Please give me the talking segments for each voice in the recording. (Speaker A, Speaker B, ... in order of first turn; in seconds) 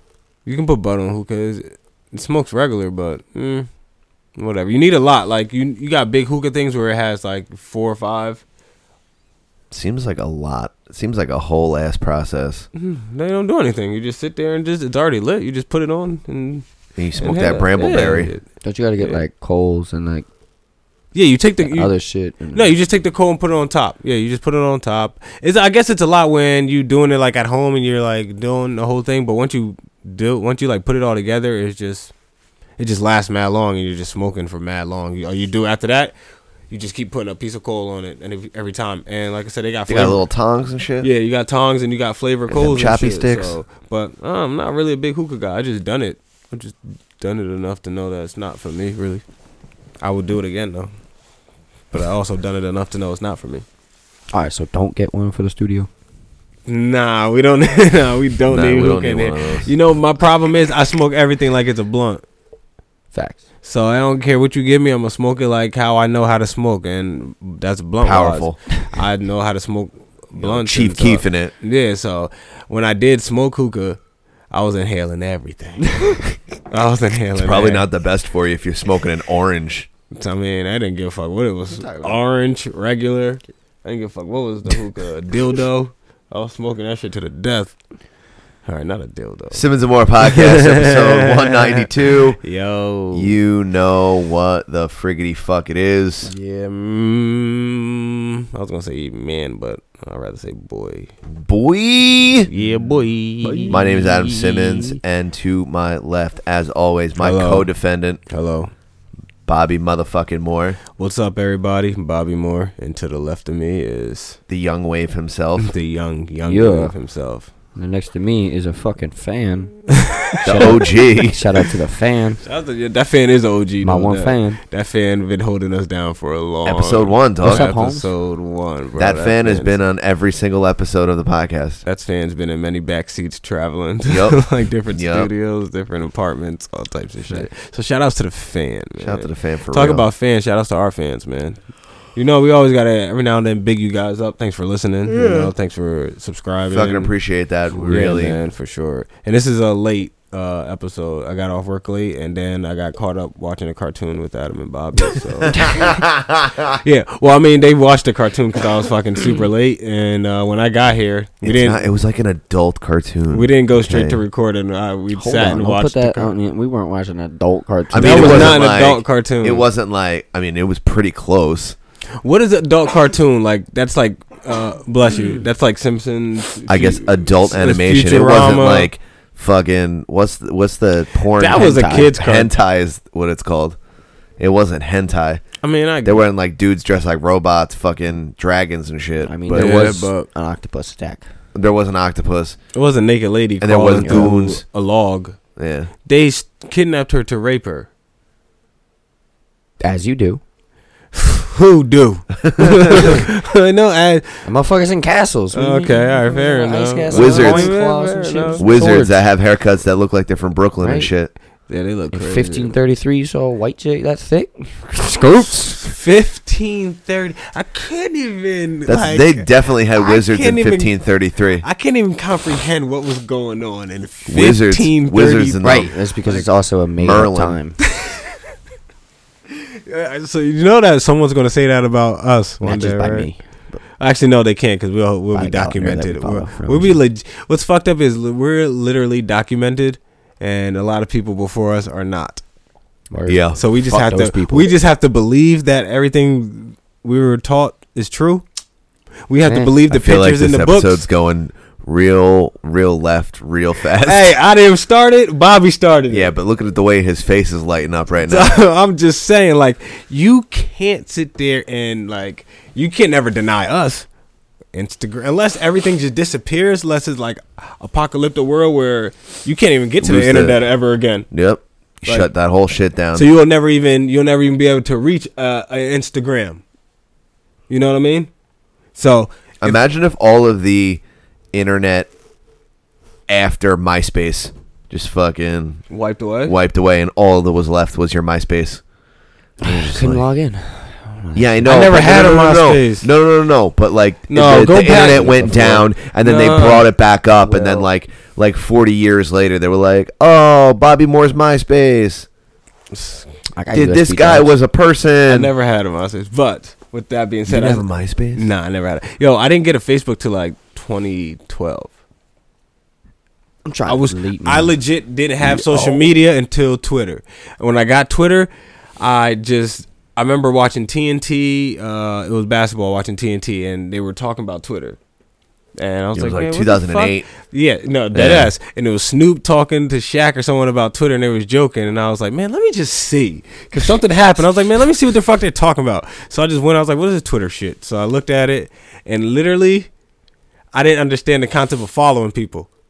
Speaker A: 0.4-3.7, 4.3-8.4, 12.7-16.6, 17.2-18.4, 21.1-21.9, 22.5-32.1, 32.8-36.1, 36.7-40.2, 41.0-49.2, 50.0-50.9, 51.9-53.6, 56.7-62.2, 63.6-74.0, 74.5-77.9, 80.1-87.8, 88.6-89.7, 90.2-91.9, 92.4-93.4, 96.2-101.1, 102.5-105.0, 107.2-107.7, 108.3-108.7, 111.0-114.4, 115.6-117.5, 120.3-120.8, 122.4-129.7, 131.8-141.6, 142.1-147.1, 147.9-155.9, 156.8-161.8, 163.3-166.3, 168.0-169.7, 172.2-178.9, 181.4-182.5, 185.6-186.2, 189.5-190.2, 192.7-195.4, 196.0-197.9, 201.1-204.4, 205.5-208.9, 211.7-212.8, 215.7-221.0, 221.6-226.5, 229.9-233.3, 234.0-242.4, 243.6-248.4, 249.3-251.0, 254.0-256.3, 258.2-264.1, 264.7-271.3, 272.0-272.3, 273.1-276.6, 277.7-278.3, 278.9-279.8, 285.9-286.6, 291.6-293.1, 294.3-296.9, 302.9-303.3, 305.3-311.9, 313.9-325.0, 325.8-339.9, 340.7-342.7
Speaker B: 9.7-12.7, 16.9-18.3, 39.9-41.1, 42.5-43.5, 58.5-59.7, 68.0-68.6, 70.3-71.5, 77.3-79.9, 89.5-92.4, 93.1-96.3, 101.3-102.5, 103.7-108.2, 109.5-110.8, 114.5-115.7, 120.4-121.4, 126.6-127.7, 129.0-131.8, 134.1-135.3, 139.0-140.1, 146.7-148.4, 155.5-156.7, 161.4-164.2, 167.9-171.8, 176.7-183.8, 184.4-185.4, 186.0-189.8, 191.5-192.6, 193.6-194.6, 195.6-195.9, 202.4-203.2, 207.1-207.8, 208.6-211.3, 218.8-221.7, 224.3-225.9, 227.0-227.6, 243.3-243.6, 249.9-254.3, 256.1-258.5, 270.0-270.6, 271.3-273.3, 279.6-281.0, 281.5-282.1, 283.3-285.8, 286.4-288.8, 289.6-290.3, 291.3-302.3, 303.7-305.5, 307.5-308.5, 326.1-327.3, 328.1-328.5
Speaker C: 18.6-20.2, 21.6-22.7, 54.3-55.9, 63.1-63.4, 81.7-82.2, 103.4-103.8, 116.4-116.9, 117.7-119.8, 120.4-122.4, 123.8-124.6, 127.4-128.1, 147.8-148.2, 165.1-168.6, 181.4-182.1, 189.2-191.2, 194.0-194.3, 199.8-200.4, 204.4-209.2, 210.8-211.1, 212.1-215.8, 225.6-227.8, 232.6-233.4, 235.3-237.0, 243.1-244.7, 249.4-249.8, 289.6-292.0, 295.1-295.6, 297.4-297.9, 303.5-304.5, 313.6-314.8, 315.5-316.0